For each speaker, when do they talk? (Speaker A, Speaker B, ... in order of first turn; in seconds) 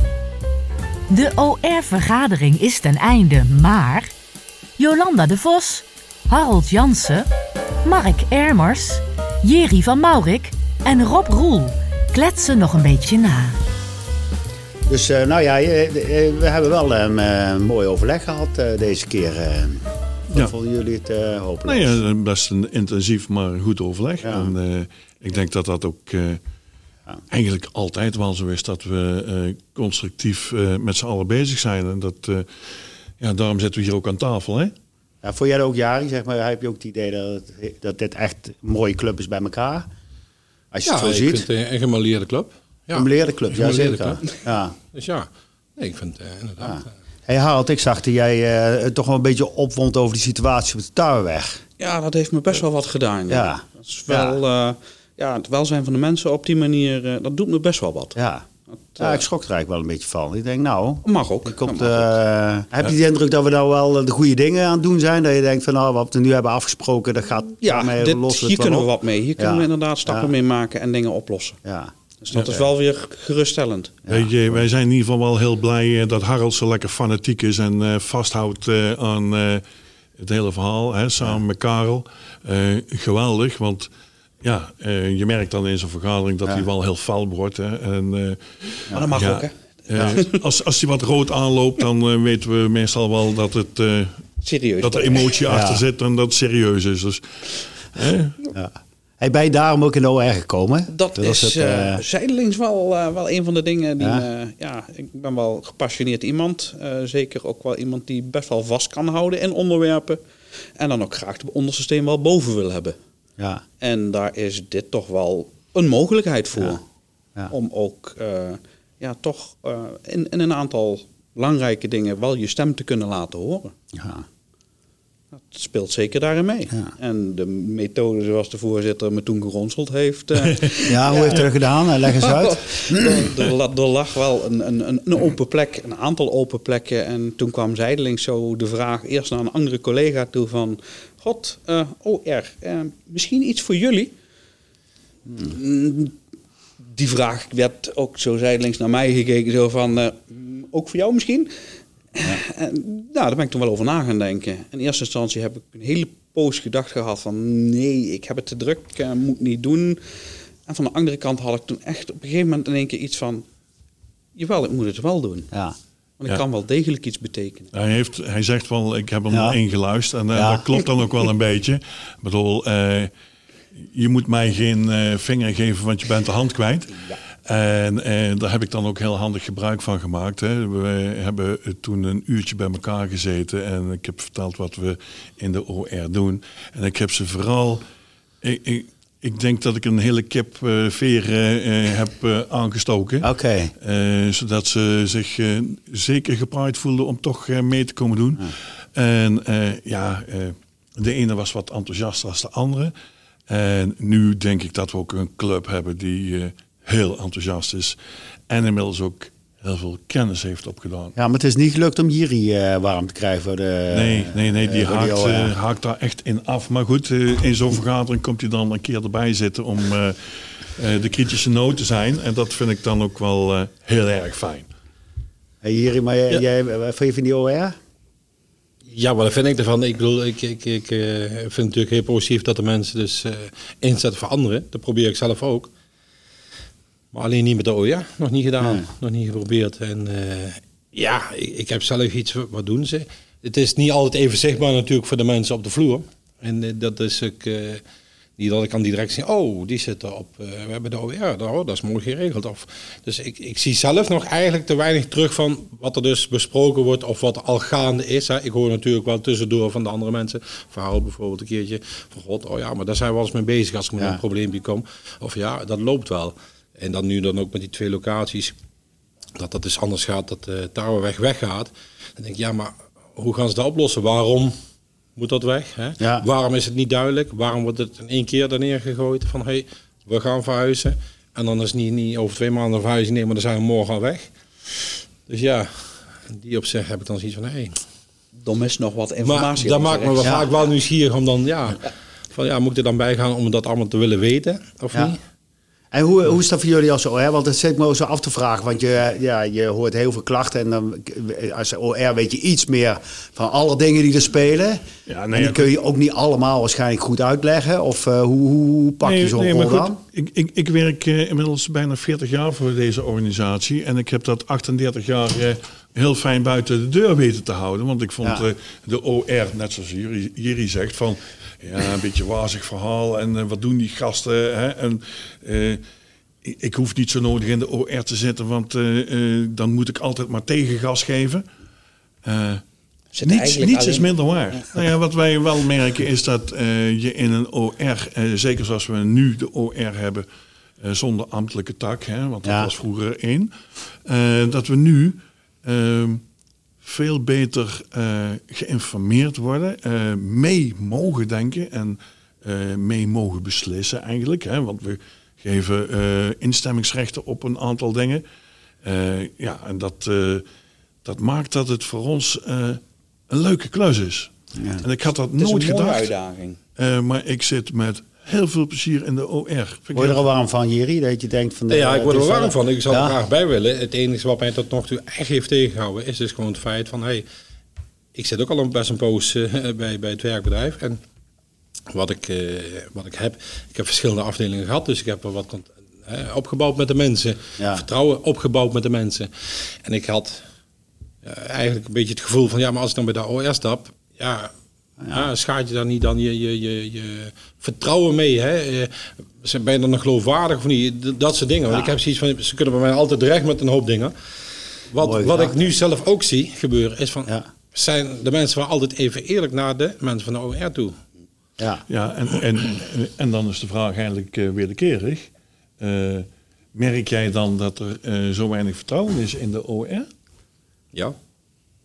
Speaker A: 1.1-4.1, 4.8-7.3, 7.8-13.6
Speaker B: 14.9-22.0, 24.2-24.5, 35.2-39.9, 40.7-41.5, 42.9-44.8, 46.6-51.6, 53.3-54.4, 58.1-58.5, 59.0-70.3, 71.6-71.9, 74.0-74.6, 95.5-95.8, 98.5-102.0, 104.0-104.2, 123.9-124.2, 130.9-133.3, 169.3-169.6, 170.3-170.8, 193.2-193.7, 211.2-215.5, 225.6-227.8, 238.6-238.9, 276.0-276.2, 290.2-290.5, 295.9-310.0, 342.4-342.7, 364.5-364.8, 369.9-373.2, 387.6-387.8, 395.0-395.3, 401.7-401.9, 405.0-405.7, 411.6-411.8
Speaker C: 21.7-26.4, 27.3-34.7, 74.1-79.6, 80.2-83.9, 84.4-94.2, 94.8-98.4, 167.7-173.1, 173.7-187.8, 188.4-202.9, 203.5-208.0, 208.5-211.1, 213.9-224.7, 305.1-305.7, 309.0-325.8, 326.4-331.5, 332.2-332.6, 333.2-340.2, 340.8-343.5, 344.0-346.2, 346.8-358.2, 358.8-360.4, 361.0-366.1, 366.8-370.2, 411.9-420.1
Speaker D: 40.8-44.4, 44.9-46.9, 228.9-235.7, 237.1-247.8, 248.4-268.5, 269.4-274.6, 275.1-287.8, 289.2-295.2, 371.7-377.2, 378.1-381.0, 381.9-390.4, 391.2-394.5, 395.1-404.1, 404.9-411.0
Speaker E: 51.8-58.2, 58.8-59.2, 61.0-62.1, 67.6-71.6, 72.2-74.0, 88.9-90.4, 94.4-95.4, 100.9-110.2, 110.8-113.0, 113.8-116.8, 117.5-123.7, 125.3-131.5, 132.1-144.1, 145.3-146.1, 146.8-151.5, 152.1-163.4, 164.3-165.5, 166.2-167.7, 288.4-290.2, 333.1-334.6, 365.3-366.6